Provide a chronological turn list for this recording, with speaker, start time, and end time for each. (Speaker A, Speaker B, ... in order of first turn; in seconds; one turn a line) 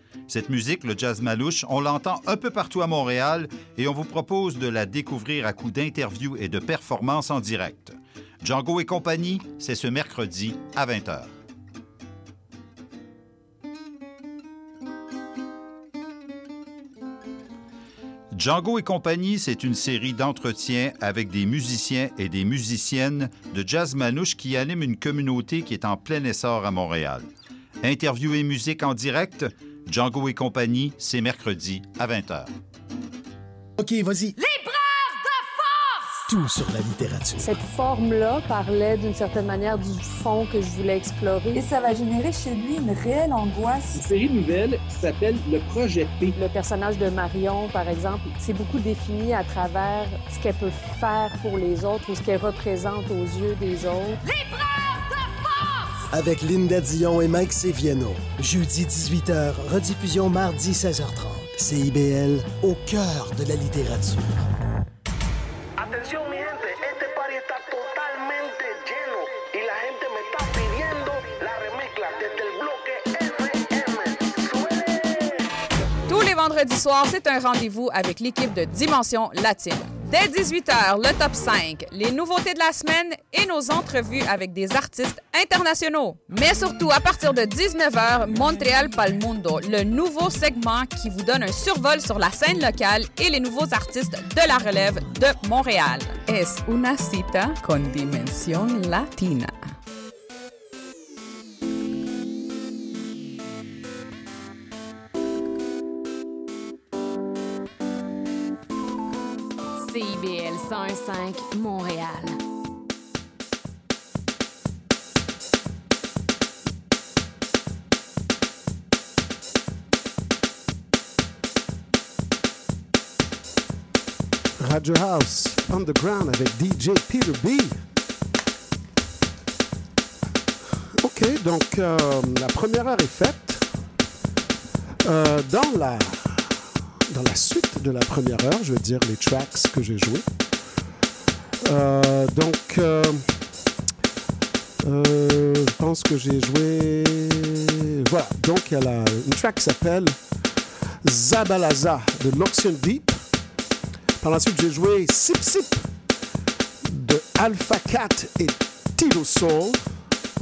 Speaker A: 0.3-11.3
Speaker A: 18.3-27.3
Speaker A: 27.8-32.5
Speaker B: 33.8-34.4
Speaker C: 34.5-36.1
Speaker B: 36.3-37.6
Speaker D: 37.4-41.7
Speaker E: 41.5-44.0
Speaker F: 44.0-46.2
Speaker D: 46.3-54.2
Speaker B: 56.1-64.4
Speaker G: 65.8-75.3
Speaker H: 76.1-99.5
Speaker C: 109.9-112.4
Speaker I: 124.6-127.8
Speaker I: 131.0-133.6
Speaker I: 135.0-136.5
Speaker I: 137.1-140.3
Speaker I: 141.6-143.3
Speaker I: 144.8-150.2
Speaker I: 151.0-153.2
Speaker I: 154.2-155.9
Speaker I: 156.8-159.9